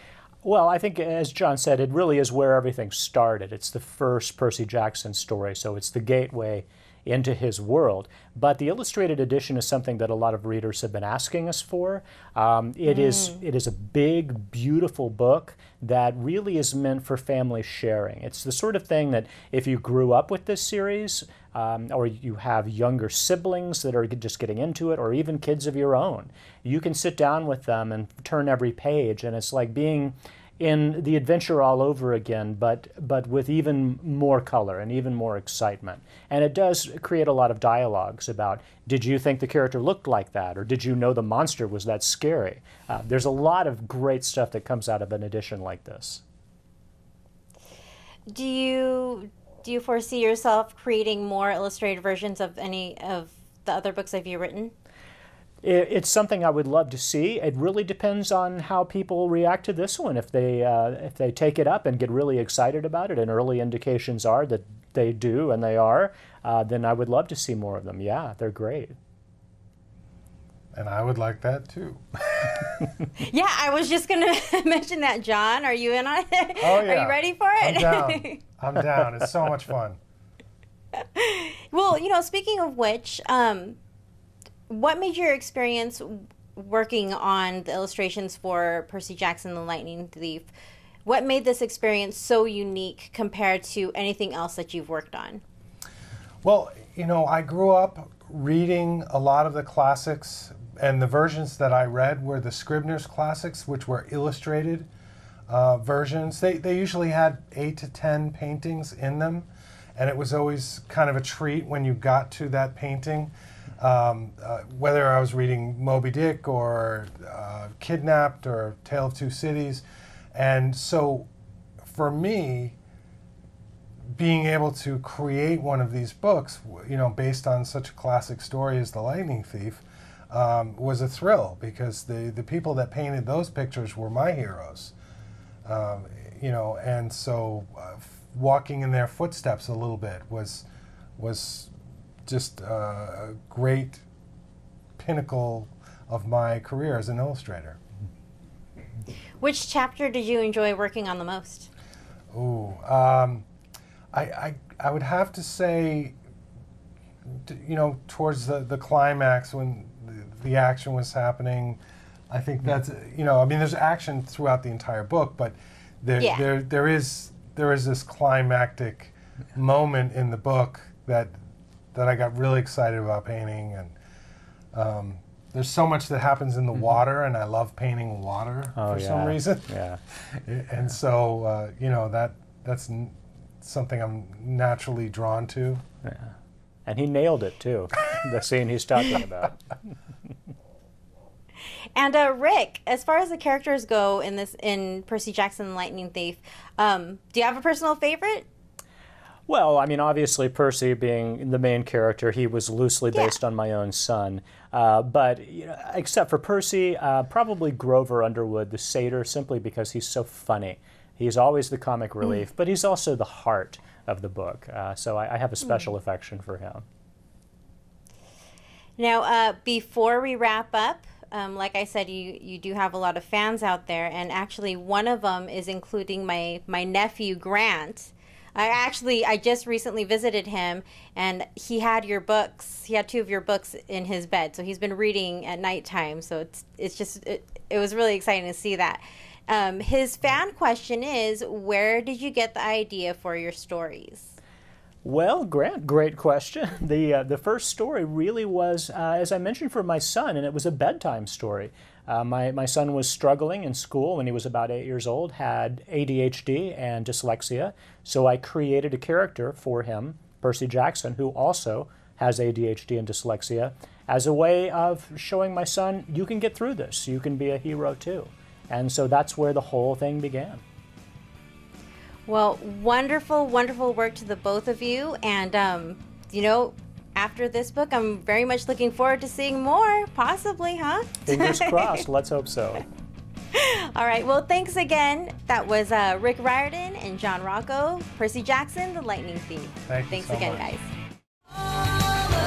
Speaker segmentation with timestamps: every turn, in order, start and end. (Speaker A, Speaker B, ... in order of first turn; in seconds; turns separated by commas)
Speaker A: 0.4-46.2, Speaker B: 12.8-13.4, Speaker B: 48.3-54.7, Speaker A: 55.6-69.0, Speaker C: 70.7-72.6, Speaker B: 73.2-78.4, Speaker C: 76.6-80.0, Speaker B: 81.1-83.8, Speaker B: 84.7-90.5, Speaker B: 91.0-95.4, Speaker C: 96.4-104.9, Speaker C: 105.5-121.3, Speaker C: 121.8-122.8, Speaker C: 124.2-134.9, Speaker C: 135.6-140.7, Speaker C: 141.2-141.7, Speaker C: 142.2-144.0, Speaker C: 145.0-147.8, Speaker B: 149.4-151.7, Speaker C: 152.3-153.4, Speaker C: 154.1-156.2, Speaker C: 157.3-171.3, Speaker B: 166.2-166.4, Speaker C: 171.9-173.9, Speaker C: 174.7-179.7, Speaker A: 178.8-180.0, Speaker C: 180.3-185.8, Speaker A: 186.0-186.3, Speaker A: 186.8-189.6, Speaker B: 191.9-198.5, Speaker A: 199.5-216.8, Speaker B: 215.6-215.9, Speaker B: 219.0-244.3, Speaker A: 245.0-270.6, Speaker B: 272.3-282.0, Speaker A: 281.2-282.8, Speaker B: 283.5-290.9, Speaker C: 289.9-290.6